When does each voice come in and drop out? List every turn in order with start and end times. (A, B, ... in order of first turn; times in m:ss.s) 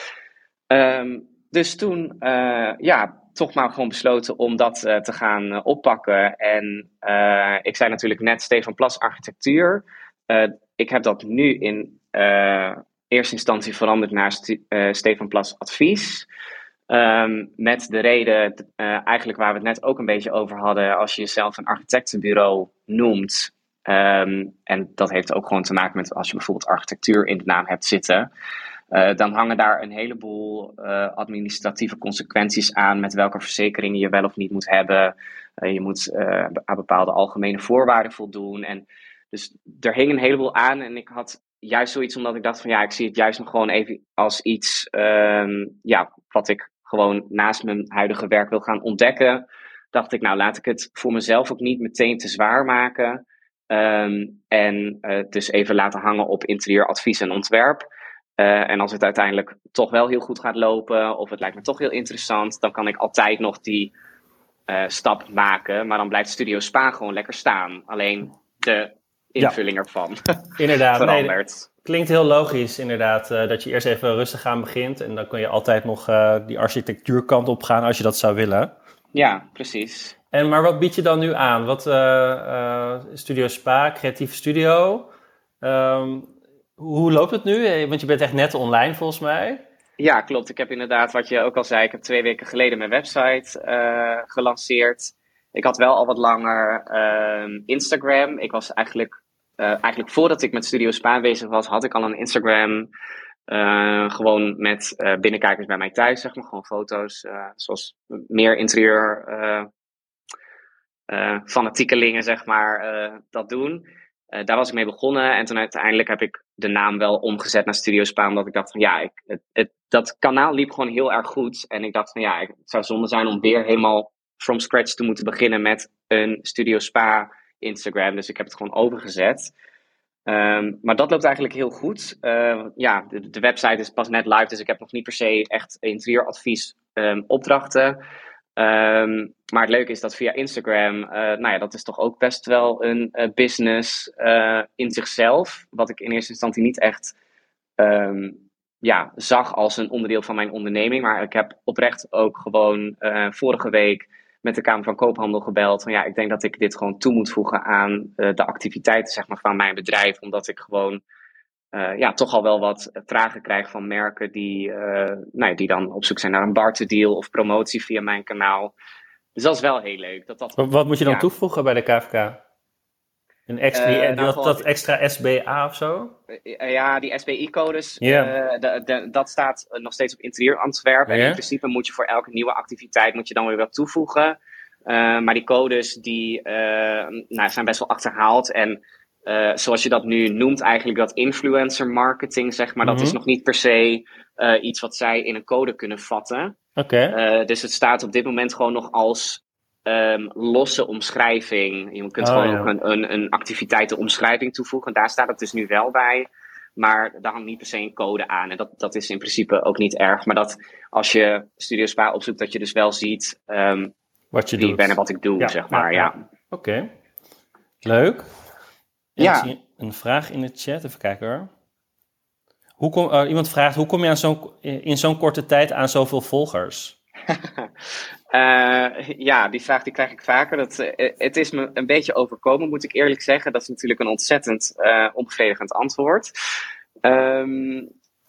0:00.7-0:16.3 A
0:16.9-0:28.3 A
0:28.9-0:57.8 A
0:58.4-1:03.9 A
1:04.7-1:11.7 A
1:10.6-1:18.7 B
1:19.1-1:20.2 A
1:20.3-1:25.1 B
1:25.6-1:29.6 B
1:30.0-1:42.9 A
1:43.5-1:49.7 A
1:51.1-2:09.5 A
2:10.3-2:18.0 A
2:18.6-2:27.1 A
2:27.8-2:41.0 A
2:41.7-2:48.7 A
2:49.4-2:51.3 A
2:50.6-2:52.4 B
2:53.5-2:56.1 B
2:53.8-2:54.6 A
2:56.3-3:16.6 A
2:58.0-2:58.3 B
3:01.1-3:01.4 B
3:12.8-3:13.2 B
3:16.8-3:17.2 B
3:17.1-3:33.9 A
3:22.2-3:22.7 B
3:34.3-3:36.9 B
3:34.6-3:36.2 A
3:37.8-3:38.3 B
3:39.2-3:41.5 B
3:39.2-3:39.5 A
3:42.8-3:47.0 B
3:48.3-3:56.3 A
3:57.0-3:57.9 A